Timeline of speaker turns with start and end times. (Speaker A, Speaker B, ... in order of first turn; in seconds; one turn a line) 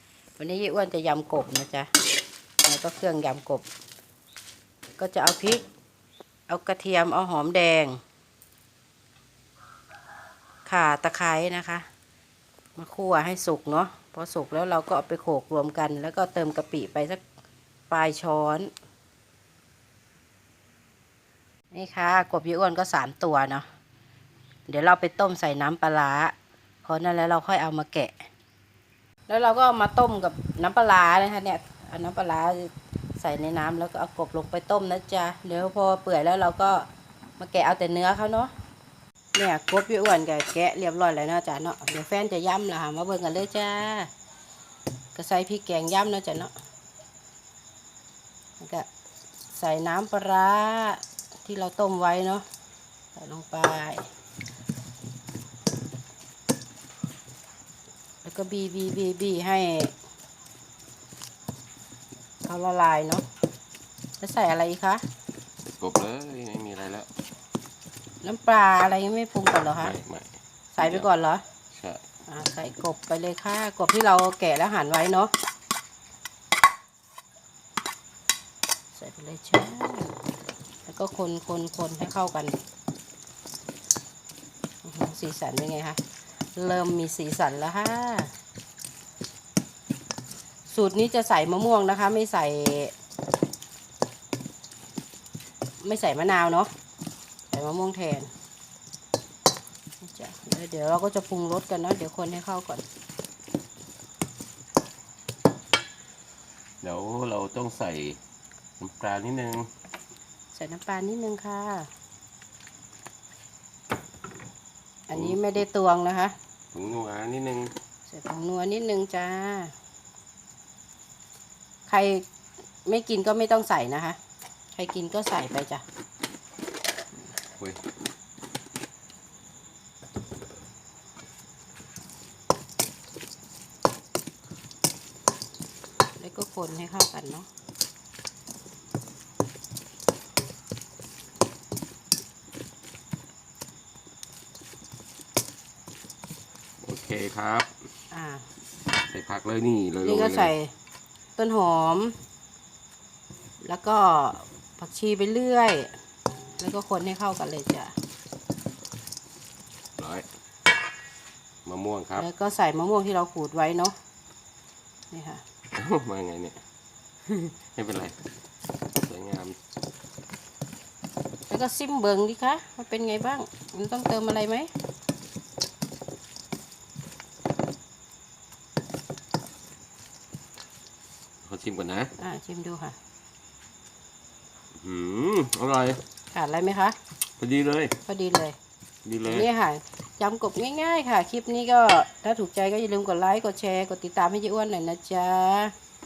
Speaker A: 0.4-1.9
Speaker A: 2.6-3.6
Speaker A: 5.0-5.6
Speaker A: 6.5-8.0
Speaker A: 10.7-11.9
Speaker A: 12.8-17.2
Speaker A: 17.9-18.7
Speaker A: 21.7-23.6
Speaker A: 24.7-26.3
Speaker A: 26.9-28.3
Speaker A: 29.3-36.9
Speaker A: 37.4-38.5
Speaker A: 39.4-44.1
Speaker A: 45.1-46.5
Speaker A: 48.6-48.9
Speaker A: 49.5-52.4
Speaker A: 53.1-54.1
Speaker A: 58.2-59.9
Speaker A: 62.5-63.2
Speaker A: 64.2-65.0
Speaker B: 65.6-67.1
Speaker A: 68.2-70.0
Speaker B: 69.7-71.1
Speaker A: 70.8-71.4
Speaker B: 71.7-72.0
Speaker A: 72.3-75.3
Speaker A: 79.0-80.2
Speaker A: 80.9-82.5
Speaker A: 84.8-86.0
Speaker A: 86.6-88.3
Speaker A: 90.7-92.9
Speaker A: 95.8-96.7
Speaker A: 97.5-98.3
Speaker A: 100.0-102.8
Speaker B: 106.8-108.2
Speaker B: 108.8-109.7
Speaker A: 110.5-111.9
Speaker A: 115.1-116.3
Speaker B: 115.1-115.6
Speaker B: 116.7-117.7
Speaker A: 118.1-119.7
Speaker A: 121.9-122.2
Speaker A: 122.9-124.2
Speaker A: 124.8-125.8
Speaker A: 136.2-137.5
Speaker B: 146.8-147.8
Speaker A: 148.1-148.4
Speaker B: 149.0-150.5
Speaker A: 150.0-150.7
Speaker A: 151.4-152.2
Speaker A: 153.6-155.9
Speaker A: 156.6-157.9
Speaker B: 160.0-160.3
Speaker B: 161.7-162.3
Speaker A: 162.2-163.9
Speaker A: 165.1-165.4
Speaker B: 165.7-166.6
Speaker B: 167.2-168.2
Speaker B: 168.9-169.6
Speaker A: 171.5-174.7
Speaker B: 181.4-182.1
Speaker A: 182.2-183.0
Speaker B: 184.8-186.0
Speaker A: 186.3-187.0
Speaker B: 187.4-188.0
Speaker A: 188.1-188.6
Speaker B: 189.1-189.5
Speaker A: 189.2-195.7